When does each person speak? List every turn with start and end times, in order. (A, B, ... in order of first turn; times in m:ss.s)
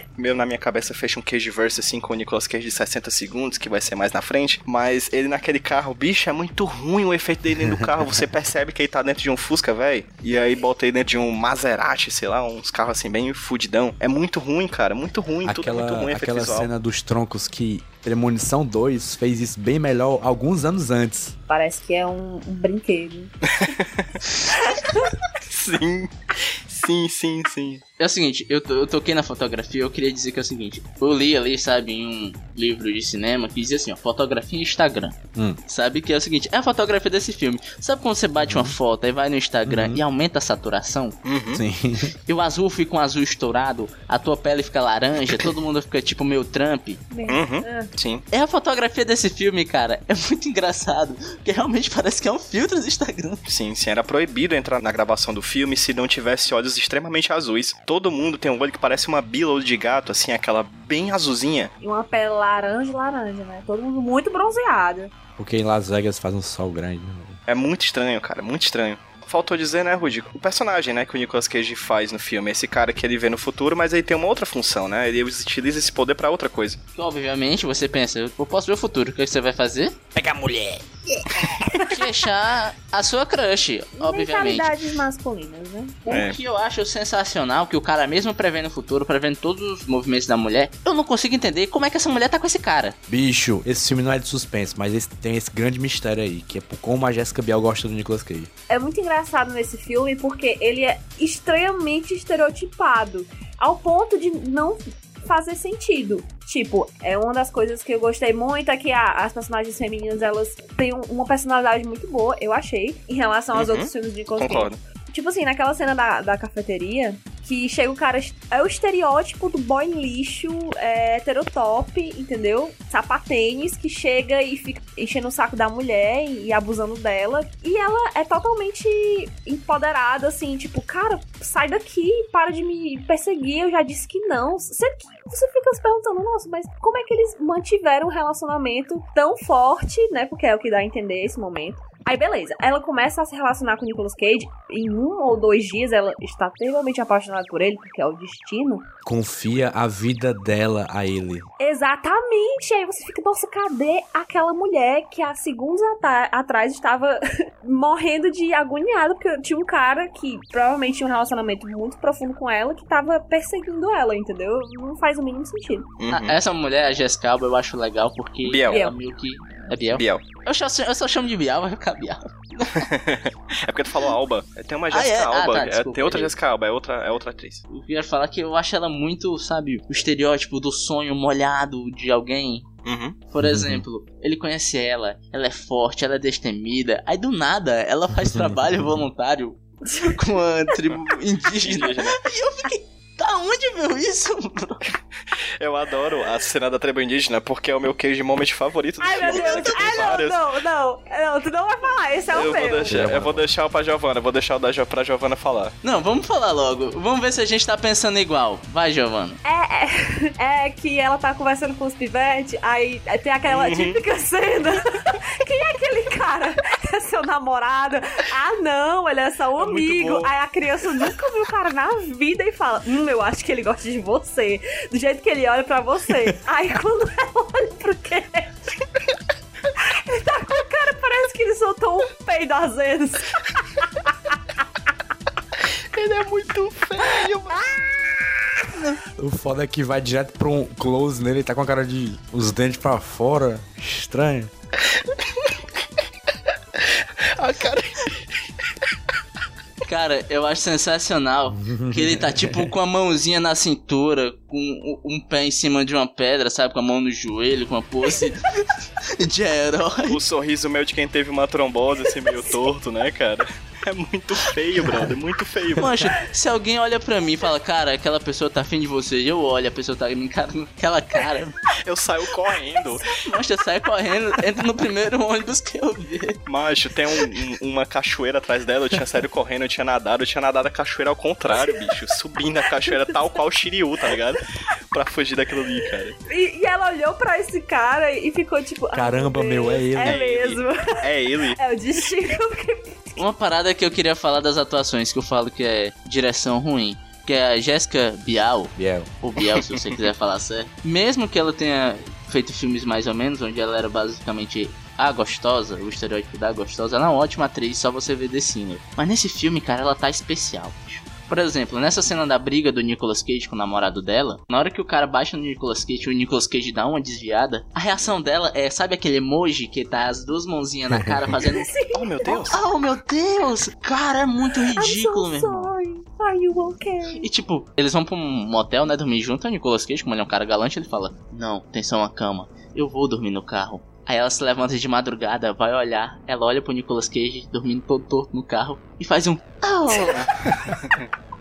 0:00.2-0:16.7 A
0:07.6-0:08.2 B
0:15.4-0:21.4 B
0:21.5-0:23.3 C
0:23.5-0:24.2 A
0:24.8-0:25.0 C
0:25.4-0:27.8 A
0:28.0-0:41.2 D
0:38.4-0:38.8 B
0:39.7-0:40.0 B
0:41.2-0:41.6 A
0:41.5-0:42.1 B
0:42.3-0:47.0 D
0:47.1-0:47.9 C
0:47.3-0:48.2 A
0:48.3-0:53.4 D
0:53.5-1:01.7 A
1:01.8-1:05.1 C
1:05.4-1:07.4 B
1:07.5-1:16.8 A
1:17.0-1:20.0 D
1:20.1-1:20.8 B
1:21.2-1:22.0 C
1:21.9-1:24.8 D
1:24.0-1:26.2 C
1:26.1-1:26.4 A
1:26.1-1:33.0 D
1:33.1-1:38.5 B
1:38.7-2:28.9 C
1:53.5-1:54.8 A
2:29.0-2:31.5 B
2:31.6-2:45.9 C
2:46.0-2:46.4 A
2:46.1-2:52.9 D
2:48.4-2:48.8 A
2:48.7-2:49.0 C
2:49.9-2:50.2 A
2:52.8-2:57.6 A
2:54.9-2:56.3 D
2:57.7-3:02.7 D
3:02.8-3:03.2 A
3:03.3-3:14.8 D
3:03.4-3:03.8 B
3:08.3-3:08.6 B
3:09.9-3:10.2 C
3:11.7-3:12.2 A
3:15.6-3:20.5 A
3:19.0-3:23.0 C
3:19.2-3:19.8 D
3:22.3-3:25.7 A
3:22.9-3:23.4 B
3:25.8-3:29.4 D
3:29.4-3:48.5 C
3:33.5-3:34.0 A
3:39.6-3:40.3 A
3:49.8-3:53.4 C
3:55.9-3:57.6 A
3:59.2-4:04.5 B
4:04.9-4:05.5 A
4:07.3-4:08.3 A
4:09.9-4:18.6 D
4:11.5-4:12.7 B
4:19.2-4:20.2 D
4:20.1-4:25.9 A
4:22.1-4:22.7 C
4:25.8-4:31.6 D
4:31.8-4:33.2 A
4:33.1-4:36.4 D
4:36.5-4:46.2 A
4:41.5-4:42.0 C
4:42.9-4:43.1 C
4:46.3-4:53.2 C
4:48.9-4:50.2 B
4:50.0-4:51.6 A
4:53.2-5:21.7 D
4:58.8-4:59.1 B
5:20.9-5:21.4 B
5:21.3-5:22.6 C
5:21.9-5:22.6 A
5:22.5-5:25.7 D
5:24.8-5:27.3 C
5:27.2-5:40.2 D
5:39.9-5:40.3 C